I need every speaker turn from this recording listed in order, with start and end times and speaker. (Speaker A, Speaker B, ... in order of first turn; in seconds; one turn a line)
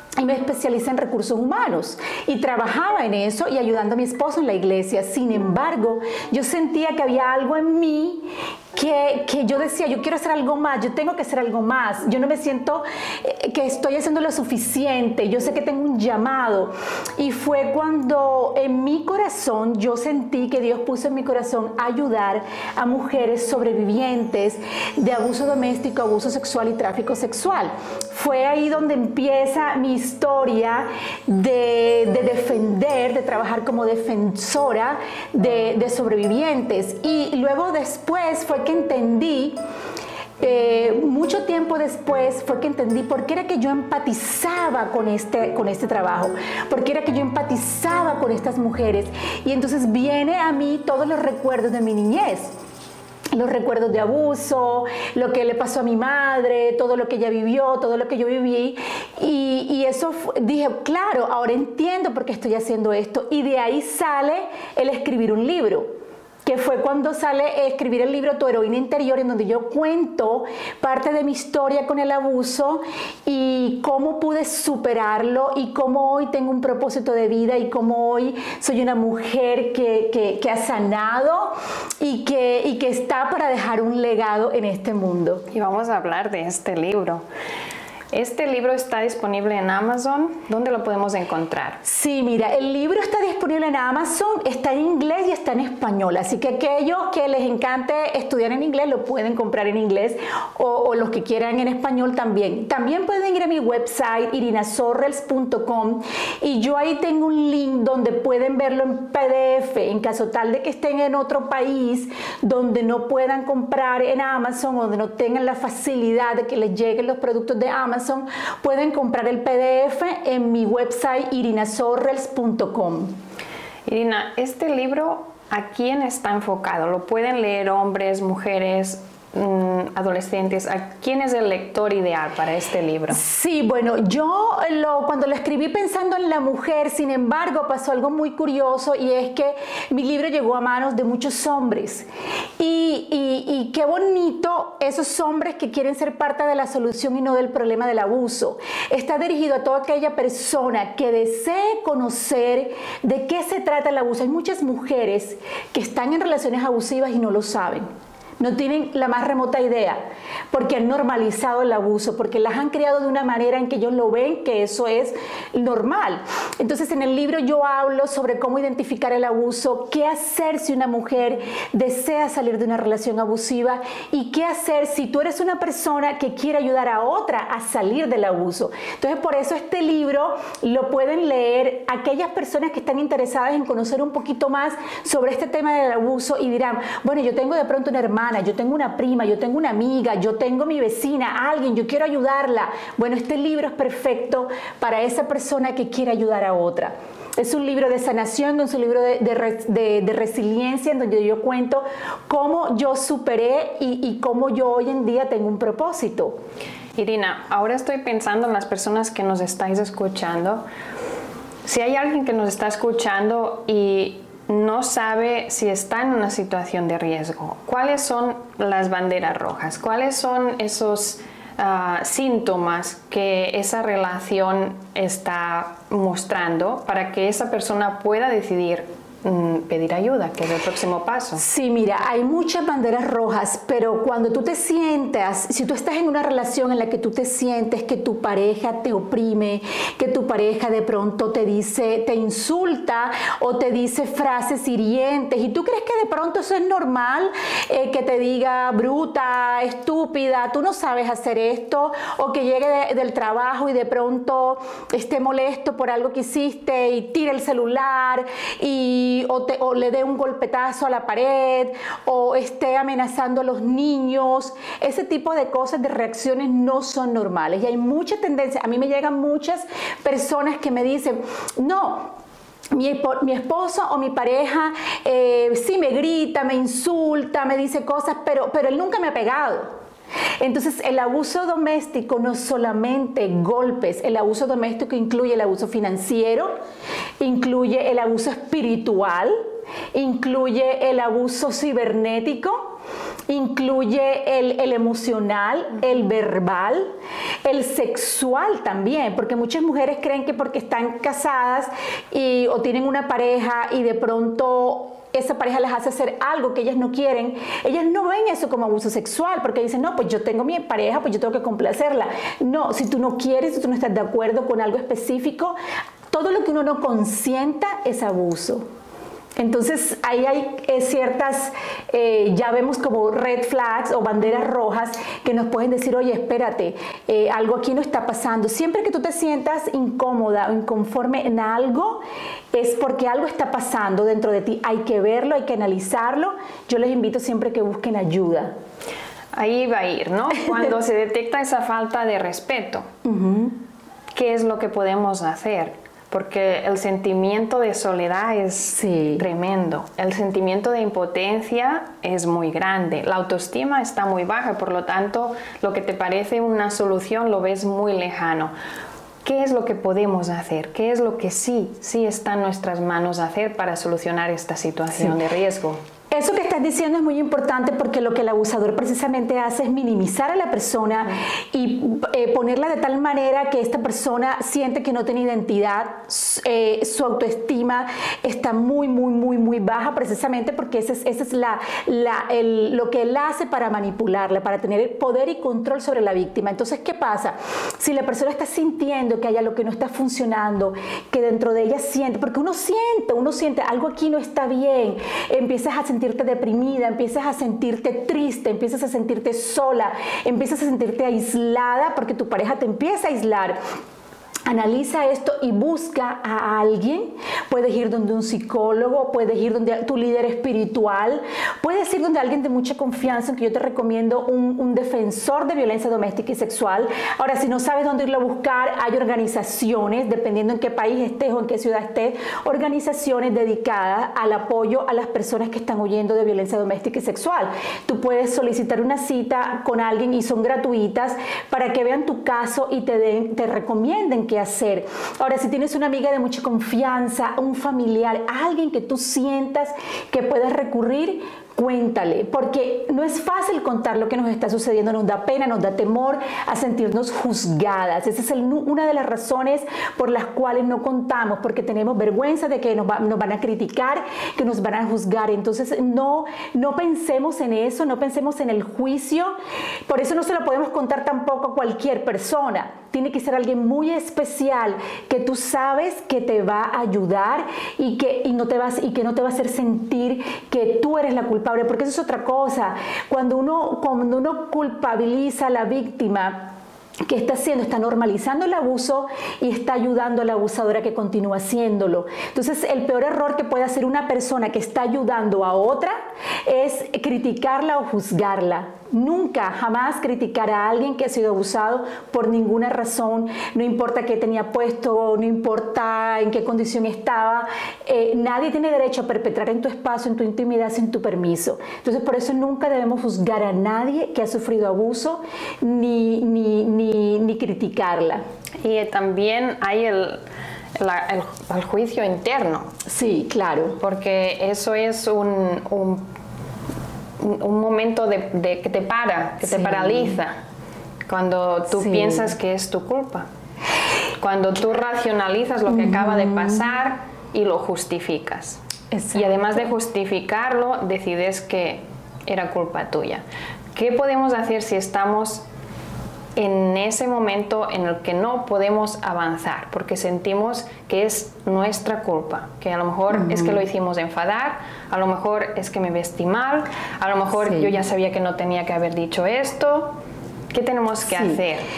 Speaker A: 0.2-39.6
Speaker A: 40.4-52.5
Speaker A: 53.3-65.9
Speaker A: 66.5-85.5
Speaker B: 85.5-87.2
Speaker B: 88.1-91.8
Speaker A: 91.8-123.1
Speaker B: 123.9-133.2
Speaker A: 133.1-142.1
Speaker A: 142.6-157.9
Speaker A: 158.4-206.4
Speaker B: 207.0-210.6
Speaker B: 211.7-231.4
Speaker A: 231.3-272.1
Speaker A: 272.7-279.7
Speaker A: 280.4-286.5
Speaker A: 287.2-289.4
Speaker A: 289.9-292.7
Speaker A: 293.3-296.9
Speaker A: 297.4-315.6
Speaker A: 316.1-318.6
Speaker A: 319.4-332.0
Speaker A: 332.5-338.5
Speaker B: 339.3-342.9
Speaker A: 343.0-343.6
Speaker B: 344.1-358.5
Speaker A: 348.7-349.2
Speaker B: 359.2-365.8
Speaker A: 366.1-403.6
Speaker A: 404.5-459.3
Speaker A: 459.9-476.5
Speaker A: 477.1-485.9
Speaker A: 486.4-508.2
Speaker B: 508.6-510.2
Speaker B: 510.8-512.7
Speaker A: 512.9-513.8
Speaker B: 513.8-516.0
Speaker B: 517.2-520.3
Speaker A: 519.4-520.2
Speaker B: 521.1-523.2
Speaker A: 521.7-522.3
Speaker B: 524.2-528.6
Speaker A: 525.7-526.6
Speaker A: 528.9-529.6
Speaker B: 529.1-533.2
Speaker B: 533.8-535.4
Speaker B: 536.4-550.0
Speaker A: 543.1-543.6
Speaker A: 547.4-547.7
Speaker B: 550.5-551.6
Speaker A: 551.1-551.4